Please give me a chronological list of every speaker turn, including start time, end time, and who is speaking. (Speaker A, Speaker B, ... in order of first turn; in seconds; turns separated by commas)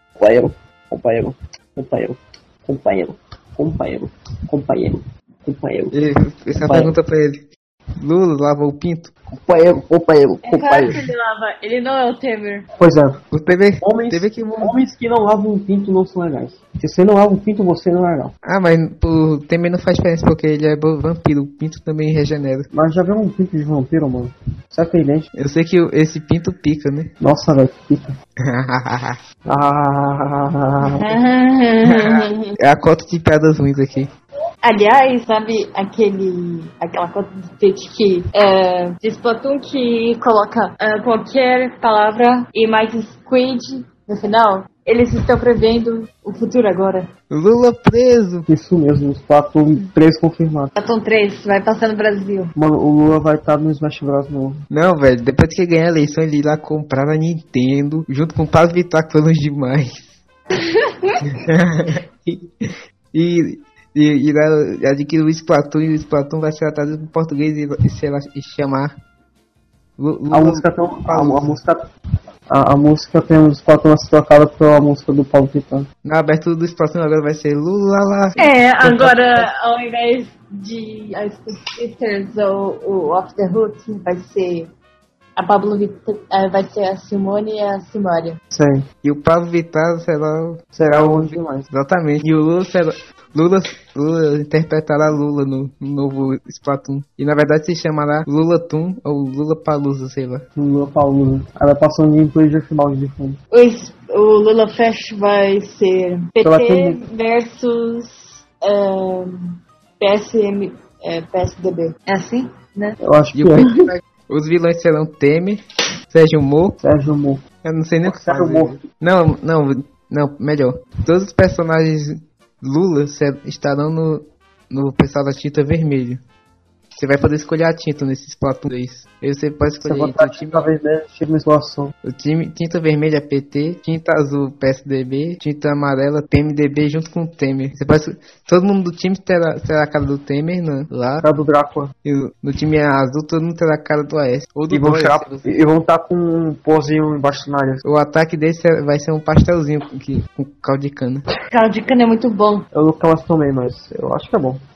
Speaker A: 0.2-6.0, Speaker B: 5.9-7.4, Speaker A: 6.6-6.9, Speaker B: 8.0-9.1, Speaker A: 9.3-11.0, Speaker C: 10.4-12.7, Speaker A: 12.8-13.2, Speaker B: 13.3-14.7, Speaker A: 13.8-18.3, Speaker B: 18.4-22.7, Speaker A: 22.7-25.3, Speaker B: 25.4-27.1, Speaker A: 27.2-28.1, Speaker B: 28.4-29.2, Speaker A: 29.4-31.2, Speaker C: 30.9-32.5, Speaker B: 31.8-34.1, Speaker C: 34.6-47.1, Speaker B: 47.3-48.5, Speaker A: 48.5-50.7, Speaker C: 50.8-52.5, Speaker A: 52.5-54.6, Speaker B: 54.7-60.2, Speaker C: 60.6-61.2, Speaker B: 61.3-68.9, Speaker B: 70.0-71.6, Speaker A: 70.3-71.8, Speaker A: 72.5-75.9, Speaker B: 76.0-79.4, Speaker C: 78.4-84.7, Speaker C: 85.4-88.4, Speaker A: 88.5-88.8, Speaker B: 89.0-100.5, Speaker A: 90.7-91.7, Speaker A: 100.5-103.4, Speaker C: 103.5-113.0, Speaker A: 106.4-107.0, Speaker A: 113.0-113.7, Speaker B: 113.3-116.8, Speaker A: 116.8-117.4, Speaker B: 117.6-126.2, Speaker A: 118.0-118.8, Speaker B: 127.0-130.7, Speaker A: 129.8-131.9, Speaker B: 132.0-141.3, Speaker A: 141.2-141.9, Speaker B: 142.0-145.5, Speaker A: 144.7-147.8, Speaker B: 147.8-151.3, Speaker C: 151.5-152.7, Speaker A: 152.7-154.6